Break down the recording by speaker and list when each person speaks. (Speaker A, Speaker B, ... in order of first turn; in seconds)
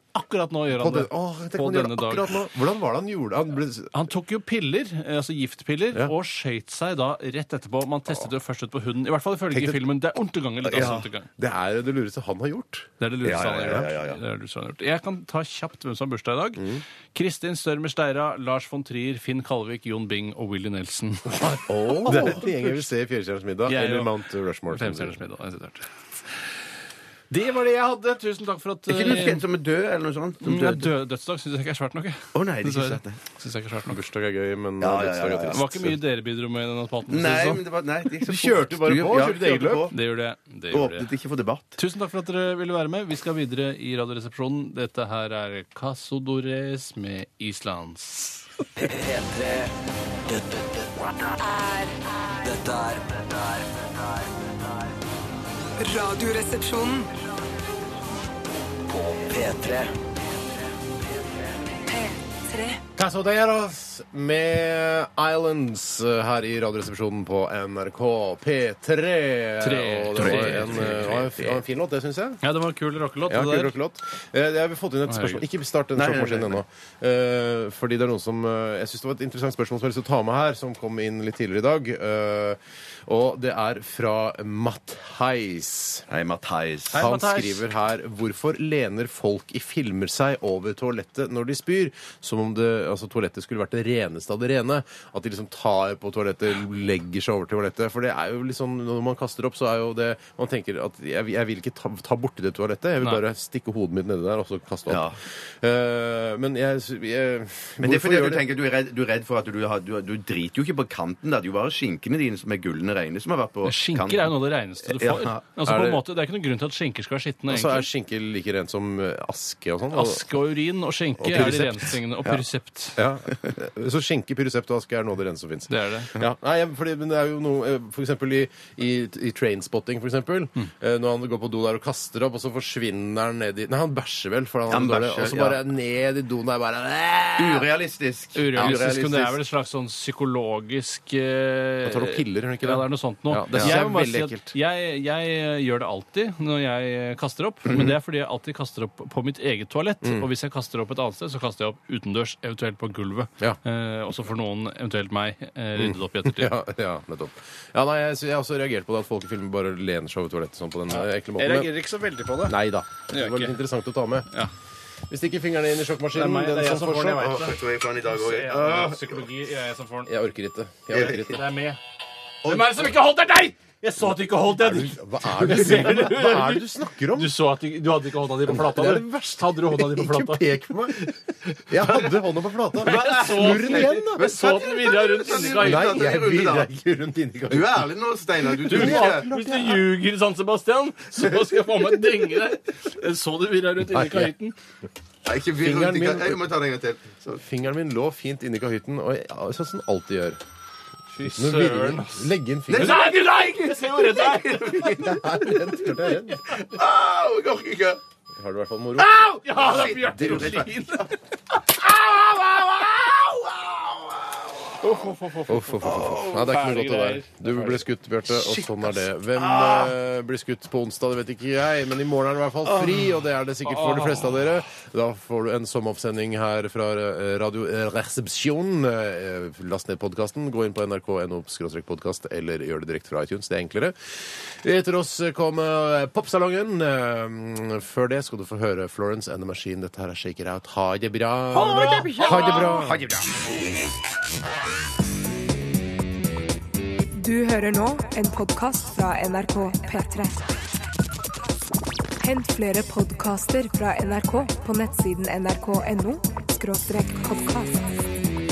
Speaker A: 0.1-2.3, 3.9-11.3, 13.0-22.7, 23.7-24.1, 24.7-26.4, 27.3-29.4, 30.4-34.0, 35.5-37.6, 39.9-41.1, 41.8-48.5, 69.6-71.5, 72.4-73.7, 75.1-75.4, 86.9-87.7, 113.7-117.8, 119.9-123.0, 125.7-126.1, 138.4-156.5, 160.9-163.6, 166.1-170.1, 170.9-171.8, 172.4-182.1, 182.8-186.1, 188.7-194.6, 201.1-206.6, 209.0-211.2, 214.8-217.8, 223.6-224.4, 241.8-242.3
Speaker B: 0.8-4.0, 11.4-12.9, 21.3-25.2, 33.9-35.9, 38.3-39.9, 63.0-72.4, 73.3-86.0, 86.9-108.4, 115.7-116.0, 117.5-120.3, 121.2-121.9, 123.0-137.7, 141.8-144.5, 155.8-161.7, 162.4-164.3, 165.1-167.3, 170.1-171.4, 174.0-177.3, 178.5-181.1, 181.7-184.5, 185.3-187.9, 188.5-189.8, 193.9-194.3, 195.6-196.5, 197.4-200.4, 201.2-203.1, 204.8-206.4, 208.3-209.1, 211.9-212.8, 215.5-243.0
Speaker C: 10.6-11.1, 13.2-14.2, 21.7-22.4, 28.9-30.9, 32.3-33.2, 34.8-35.7, 37.1-40.0, 40.7-41.8, 70.1-71.5, 76.0-76.6, 86.1-87.0, 104.9-105.2, 107.8-115.4, 134.7-135.6, 137.4-139.4, 147.7-148.0, 167.2-169.2, 170.9-171.3, 172.4-172.8, 182.9-186.7, 187.5-189.3, 195.3-197.4, 202.7-205.8, 206.5-208.0, 209.6-211.1, 213.1-214.3, 218.3-219.9, 222.7-223.0, 241.5-243.4
Speaker D: 48.8-49.7, 50.3-51.8, 52.4-55.0, 58.8-61.8
Speaker E: 51.6-51.9, 55.8-57.1, 61.9-62.8, 247.2-250.4, 252.2-257.9